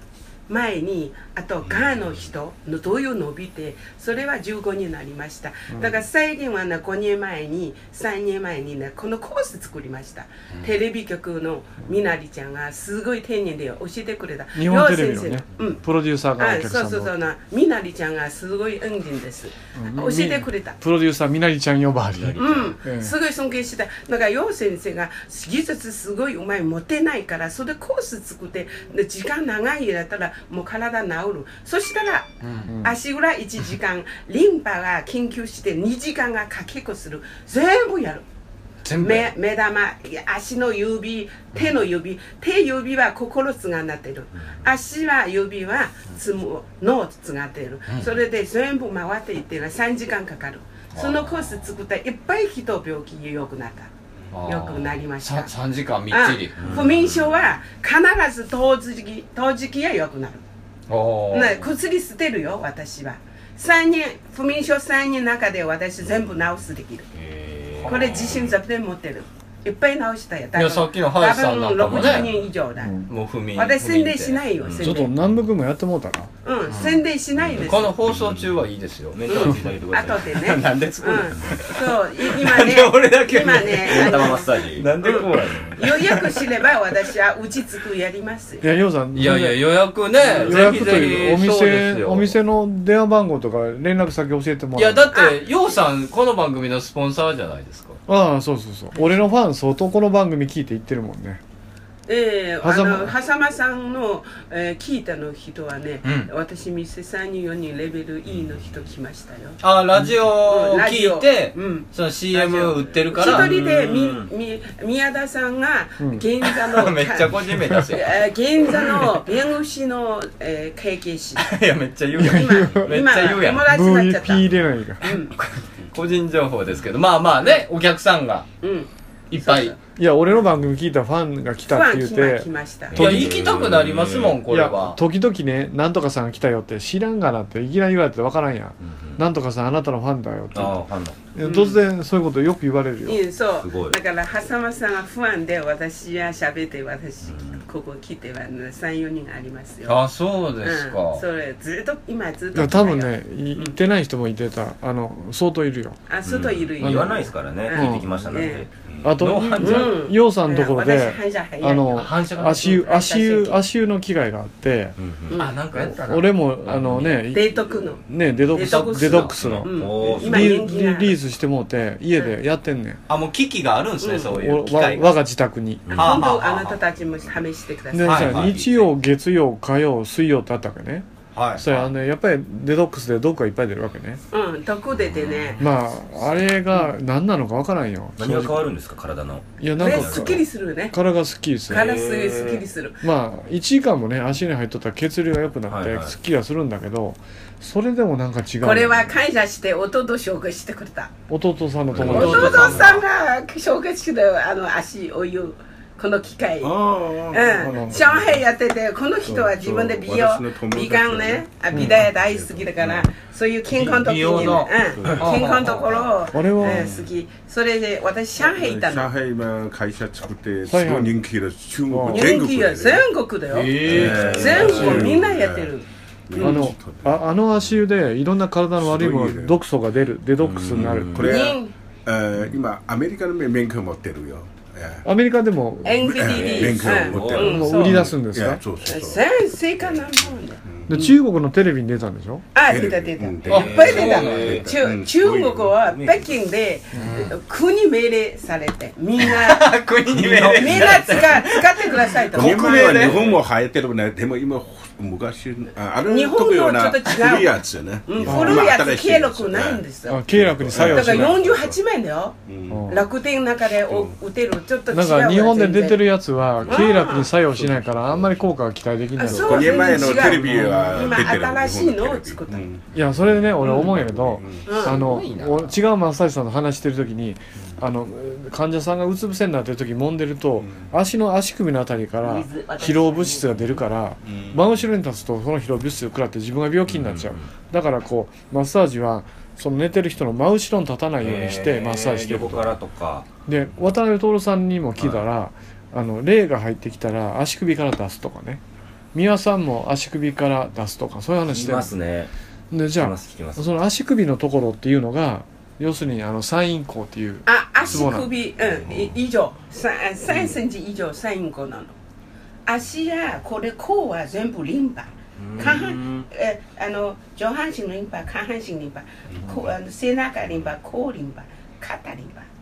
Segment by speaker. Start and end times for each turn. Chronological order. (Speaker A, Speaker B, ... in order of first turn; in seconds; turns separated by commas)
Speaker A: 0.5-15.8, Speaker B: 5.7-6.0, Speaker B: 14.5-17.1, Speaker A: 16.4-20.8, Speaker B: 19.8-23.1, Speaker C: 22.1-22.7, Speaker A: 22.4-32.3, Speaker D: 32.4-32.7, Speaker B: 32.7-33.0, Speaker A: 32.8-38.2, Speaker D: 38.9-39.3, Speaker A: 39.0-53.9, Speaker C: 44.4-44.7, Speaker D: 47.9-48.2, Speaker D: 50.9-51.3, Speaker D: 54.3-56.8, Speaker A: 54.5-55.5, Speaker A: 56.1-60.4, Speaker C: 56.6-57.4, Speaker D: 60.9-61.7, Speaker A: 61.3-67.1, Speaker C: 67.1-68.5, Speaker D: 67.8-68.2, Speaker A: 67.9-73.0, Speaker D: 70.6-72.3, Speaker C: 71.8-72.3, Speaker B: 72.8-73.1, Speaker D: 73.1-74.4, Speaker A: 73.5-75.1, Speaker C: 74.6-75.0, Speaker B: 74.8-76.3, Speaker A: 76.4-78.0, Speaker D: 76.7-77.0, Speaker C: 77.4-78.5, Speaker D: 77.6-79.5, Speaker C: 79.1-80.4, Speaker A: 79.3-88.7, Speaker D: 80.4-86.5, Speaker C: 83.8-85.8, Speaker B: 88.6-89.7, Speaker D: 89.2-92.4, Speaker A: 90.2-90.8, Speaker B: 90.4-95.1, Speaker D: 94.8-98.0, Speaker A: 95.1-95.4, Speaker B: 98.1-101.4, Speaker A: 102.1-109.6, Speaker B: 102.6-103.1, Speaker D: 106.0-106.3, Speaker C: 108.3-108.6, Speaker D: 109.6-113.5, Speaker A: 110.3-121.5, Speaker C: 113.2-114.3, Speaker B: 116.0-116.3, Speaker D: 116.6-118.2, Speaker D: 121.4-123.7, Speaker B: 122.2-123.0, Speaker A: 122.2-124.4, Speaker B: 123.6-125.0, Speaker A: 125.0-125.3, Speaker D: 125.9-128.5, Speaker A: 128.6-129.8, Speaker D: 129.3-129.7, Speaker B: 130.0-133.4, Speaker A: 131.7-133.0, Speaker C: 132.9-134.4, Speaker D: 132.9-135.0, Speaker B: 134.5-140.8, Speaker C: 138.8-139.2, Speaker C: 140.5-141.2, Speaker B: 141.3-143.2, Speaker A: 141.4-141.8, Speaker A: 143.1-150.0, Speaker C: 143.6-144.0, Speaker C: 147.2-147.6, Speaker D: 149.9-151.2, Speaker A: 150.6-153.8, Speaker B: 152.5-156.0, Speaker A: 156.1-158.7, Speaker C: 156.2-158.7, Speaker B: 156.8-165.0, Speaker E: 158.9-159.2, Speaker D: 159.2-159.9, Speaker A: 159.6-163.6, Speaker D: 161.9-162.8, Speaker C: 165.0-165.4, Speaker A: 165.3-166.0, Speaker D: 165.4-166.8, Speaker B: 166.1-167.5, Speaker C: 166.7-167.2, Speaker A: 167.3-168.0, Speaker B: 168.1-173.0, Speaker A: 168.5-171.2, Speaker D: 168.6-169.3, Speaker C: 169.4-170.6, Speaker D: 173.1-175.2, Speaker A: 174.0-174.3, Speaker B: 174.3-175.9, Speaker C: 175.9-176.6, Speaker D: 175.9-176.5, Speaker A: 175.9-178.6, Speaker B: 177.9-184.2, Speaker D: 178.0-178.3, Speaker C: 178.2-178.7, Speaker C: 181.4-181.6, Speaker A: 184.3-185.6, Speaker C: 184.9-185.6, Speaker B: 185.6-188.7, Speaker C: 188.2-190.4, Speaker B: 189.6-191.9, Speaker A: 189.8-191.0, Speaker A: 191.7-193.0, Speaker C: 191.7-192.6, Speaker B: 193.0-199.1, Speaker C: 195.7-196.1, Speaker A: 198.6-201.1, Speaker B: 201.3-203.0, Speaker C: 201.9-202.9, Speaker A: 202.0-219.1, Speaker D: 202.2-202.6, Speaker E: 206.6-208.4, Speaker B: 207.5-208.3, Speaker E: 209.3-213.1, Speaker B: 211.7-212.1, Speaker D: 213.7-216.1, Speaker E: 214.2-215.5, Speaker B: 216.3-217.0, Speaker E: 216.6-217.1, Speaker E: 218.4-223.1, Speaker B: 220.7-221.2, Speaker B: 221.9-222.3, Speaker A: 222.1-226.7, Speaker D: 223.5-225.1, Speaker E: 223.8-225.7, Speaker B: 224.7-225.1, Speaker E: 226.3-227.2, Speaker B: 226.4-231.3, Speaker E: 228.8-229.6, Speaker C: 230.4-231.5, Speaker E: 230.8-235.1, Speaker A: 231.2-231.8, Speaker B: 235.0-236.2, Speaker A: 235.8-238.1, Speaker E: 236.0-239.3, Speaker C: 236.2-237.8, Speaker B: 237.3-238.6, Speaker A: 238.8-241.2, Speaker E: 240.7-240.9, Speaker B: 240.9-242.5, Speaker A: 242.6-249.8, Speaker E: 242.7-245.8, Speaker C: 243.5-244.7, Speaker D: 243.5-244.6, Speaker C: 245.8-246.3, Speaker D: 247.0-247.4, Speaker D: 249.2-253.2, Speaker E: 250.1-251.3, Speaker A: 250.5-253.4, Speaker E: 252.3-261.8, Speaker A: 256.1-266.1, Speaker B: 258.2-258.7, Speaker B: 260.1-261.5, Speaker E: 262.5-263.0, Speaker B: 262.7-263.0, Speaker E: 263.9-264.1, Speaker B: 264.9-271.0, Speaker E: 266.6-268.3, Speaker A: 266.7-267.3, Speaker A: 269.2-272.7, Speaker E: 269.3-274.8, Speaker B: 272.9-292.8, Speaker A: 273.6-273.9, Speaker A: 274.7-275.1, Speaker D: 274.8-275.8, Speaker E: 280.6-280.9, Speaker E: 284.2-284.7, Speaker C: 286.9-287.5, Speaker C: 291.2-293.3, Speaker B: 293.5-298.6, Speaker C: 295.0-295.2, Speaker B: 299.1-301.9, Speaker C: 301.5-302.3, Speaker B: 302.7-308.3, Speaker C: 303.0-303.8, Speaker A: 307.5-311.9, Speaker C: 310.3-310.6, Speaker A: 312.7-322.5, Speaker C: 315.4-316.3